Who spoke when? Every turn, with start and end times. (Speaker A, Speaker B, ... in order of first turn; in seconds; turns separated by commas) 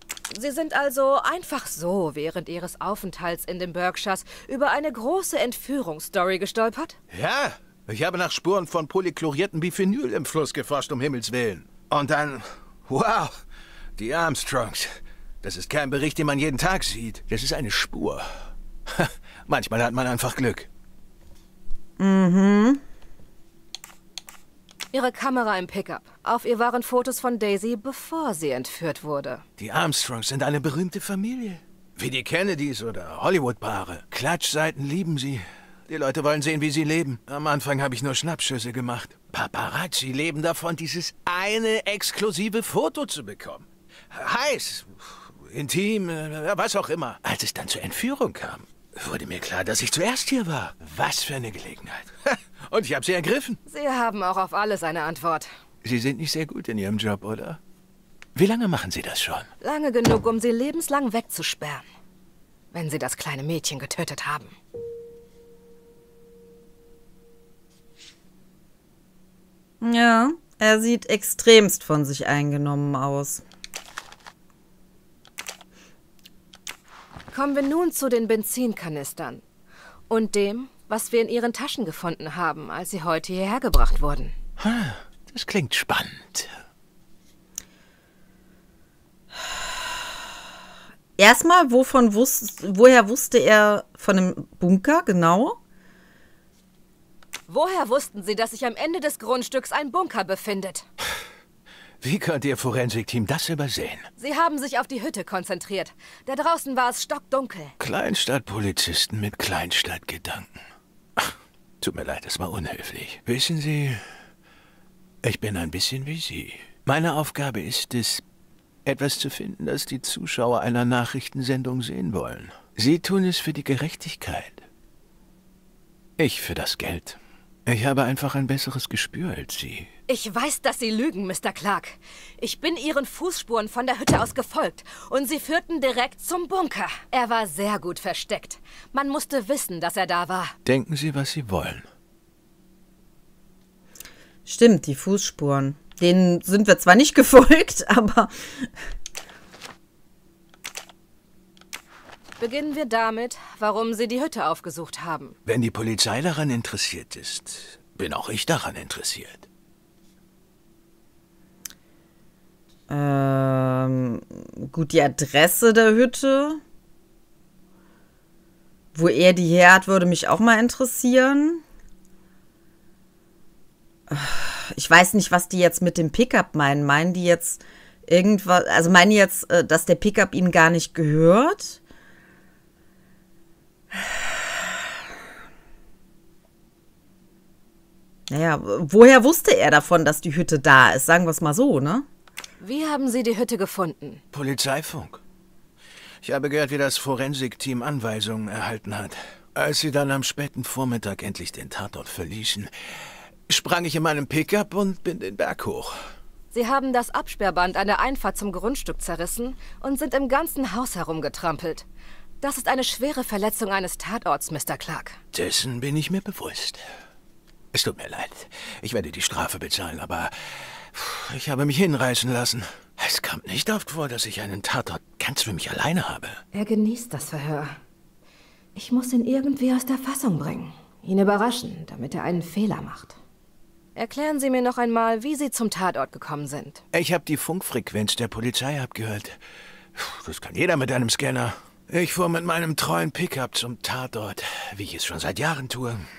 Speaker A: 0.3-7.0, Speaker B: 7.1-13.3, Speaker B: 13.9-14.9, Speaker B: 15.4-18.2, Speaker B: 18.9-20.7, Speaker C: 22.0-22.8, Speaker A: 24.9-29.4, Speaker B: 29.6-53.6, Speaker A: 53.6-55.5, Speaker B: 55.8-57.6, Speaker B: 58.4-59.5, Speaker A: 59.6-61.9, Speaker A: 62.7-64.5, Speaker C: 69.8-73.4, Speaker A: 77.3-79.4, Speaker A: 80.1-84.3, Speaker B: 84.6-86.5, Speaker C: 91.2-95.6, Speaker A: 97.5-100.9, Speaker B: 102.0-104.1, Speaker A: 104.2-107.7, Speaker B: 107.8-110.5, Speaker B: 111.8-114.0, Speaker B: 115.2-118.2, Speaker B: 118.8-124.6, Speaker B: 126.2-129.9, Speaker A: 130.1-140.5, Speaker B: 140.6-141.8, Speaker C: 144.4-148.8, Speaker A: 152.4-155.3, Speaker B: 155.4-159.4, Speaker C: 162.9-166.6, Speaker C: 168.9-171.6, Speaker C: 174.1-181.8, Speaker C: 183.9-184.3, Speaker C: 188.3-192.1, Speaker A: 192.6-194.2, Speaker B: 194.3-195.2, Speaker B: 196.2-202.7, Speaker B: 203.5-205.9, Speaker A: 206.5-211.8, Speaker A: 212.4-215.2, Speaker B: 215.3-216.8, Speaker B: 217.7-226.4, Speaker A: 226.5-227.8, Speaker A: 228.8-233.2, Speaker A: 233.9-236.8, Speaker B: 236.9-239.3, Speaker B: 239.9-246.1